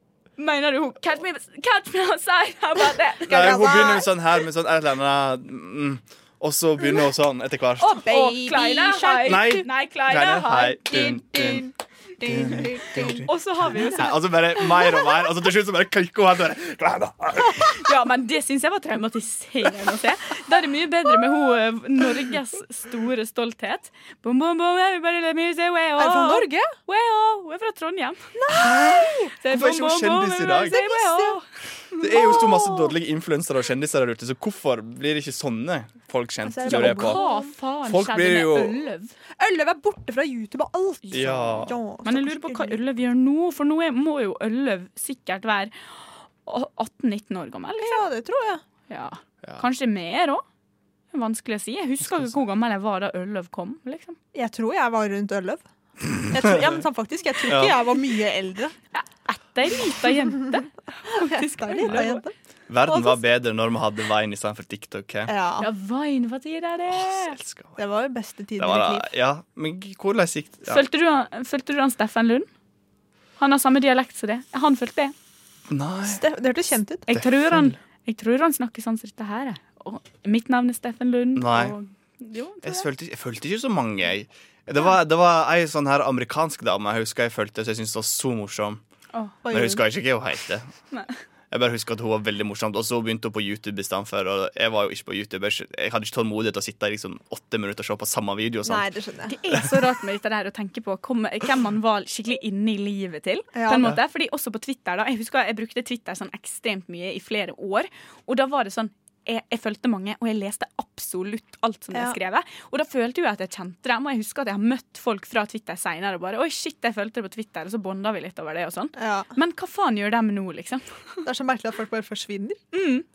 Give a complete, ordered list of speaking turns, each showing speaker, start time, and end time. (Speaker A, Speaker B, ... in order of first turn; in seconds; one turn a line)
Speaker A: 0.4-4.0
Speaker B: 3.3-8.0
Speaker C: 3.4-4.0
Speaker C: 7.8-9.7
Speaker A: 8.1-11.2
Speaker B: 9.2-17.9
Speaker C: 10.9-13.3
Speaker A: 13.2-14.1
Speaker A: 17.6-28.3
Speaker C: 26.0-26.7
Speaker C: 28.3-29.3
Speaker B: 28.5-30.8
Speaker A: 29.4-32.4
Speaker C: 30.6-31.4
Speaker B: 32.0-37.2
Speaker C: 32.0-32.9
Speaker C: 36.4-37.2
Speaker A: 36.6-39.1
Speaker B: 37.8-38.8
Speaker C: 39.4-42.8
Speaker A: 41.0-45.7
Speaker B: 41.1-41.7
Speaker A: 46.4-48.0
Speaker C: 47.8-48.6
Speaker A: 48.9-50.4
Speaker A: 51.1-54.2
Speaker C: 54.3-55.6
Speaker C: 56.3-58.7
Speaker B: 57.5-57.8
Speaker A: 58.9-62.2
Speaker C: 60.4-62.3
Speaker B: 62.7-65.3
Speaker C: 62.8-63.2
Speaker C: 65.3-65.7
Speaker A: 65.6-67.4
Speaker B: 66.9-67.8
Speaker C: 67.8-69.1
Speaker B: 68.6-70.8
Speaker A: 70.7-72.5
Speaker A: 73.4-75.1
Speaker B: 75.7-76.2
Speaker C: 76.0-77.0
Speaker A: 77.1-82.9
Speaker B: 77.1-77.7
Speaker B: 81.3-81.8
Speaker B: 82.6-88.8
Speaker C: 89.4-89.8
Speaker B: 89.5-90.7
Speaker B: 91.5-98.9
Speaker C: 98.6-99.3
Speaker A: 99.3-121.2
Speaker C: 103.5-104.0
Speaker C: 119.0-119.3
Speaker C: 121.2-122.6
Speaker A: 122.7-123.0